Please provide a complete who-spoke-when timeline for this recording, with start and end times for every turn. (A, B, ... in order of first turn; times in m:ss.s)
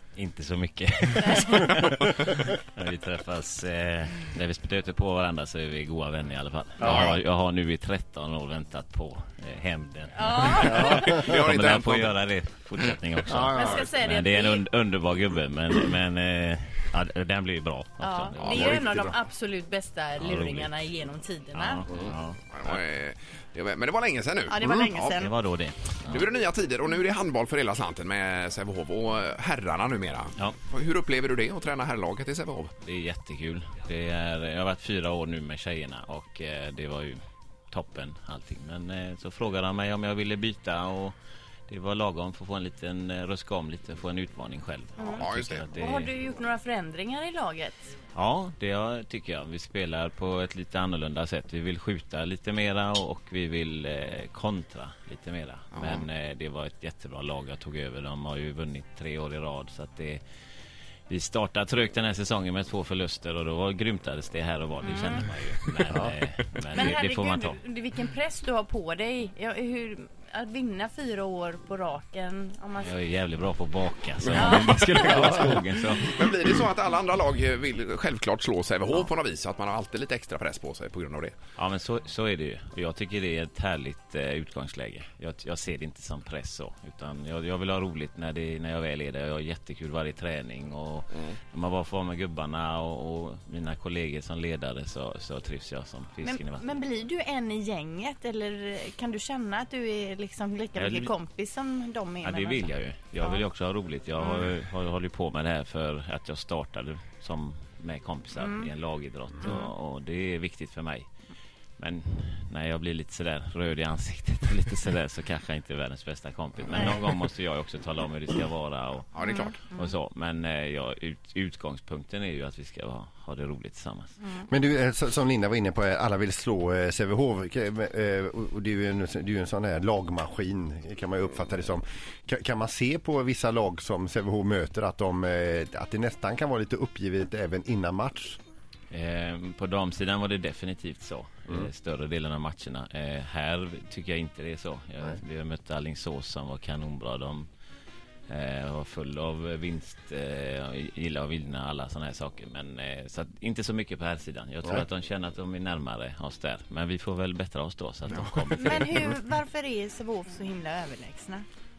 0:00.2-0:18.8 A
0:01.2-0:01.7 B
0:06.8-0:07.2 C
0:06.8-0:07.1 D
0:10.2-0:11.1 B
0:10.5-0:12.2 C
0:13.3-0:13.8 C
0:13.5-0:14.7 B
0:18.0-0:21.9 B
0:18.5-0:19.0 C
0:20.2-0:20.8 A
0:21.5-0:22.8 A
0:22.0-0:25.2 C
0:24.5-0:25.4 B
0:25.0-0:26.3 A
0:26.1-0:32.7 C
0:32.8-0:37.2 A
0:37.7-0:41.2 A
0:41.7-0:46.1 A
0:45.0-0:48.0 B
0:45.2-0:45.7 C
0:48.1-1:00.2 A
0:55.7-0:56.0 C
1:01.1-1:07.6 A
1:04.8-1:05.3 B
1:06.7-1:13.0 B
1:12.8-1:16.2 A
1:14.3-1:15.3 B
1:16.1-1:21.4 C
1:21.6-1:36.7 A
1:36.2-1:43.5 B
1:40.8-1:41.1 A
1:42.2-1:51.1 A
1:44.2-1:44.5 B
1:48.4-1:48.7 B
1:49.4-1:49.7 B
1:51.8-1:59.1 A
1:59.1-1:59.6 C
1:59.2-1:59.9 B
1:59.7-2:04.1 A
2:04.5-2:18.4 D
2:18.9-2:27.5 A
2:28.3-2:39.2 A
2:38.6-2:41.5 B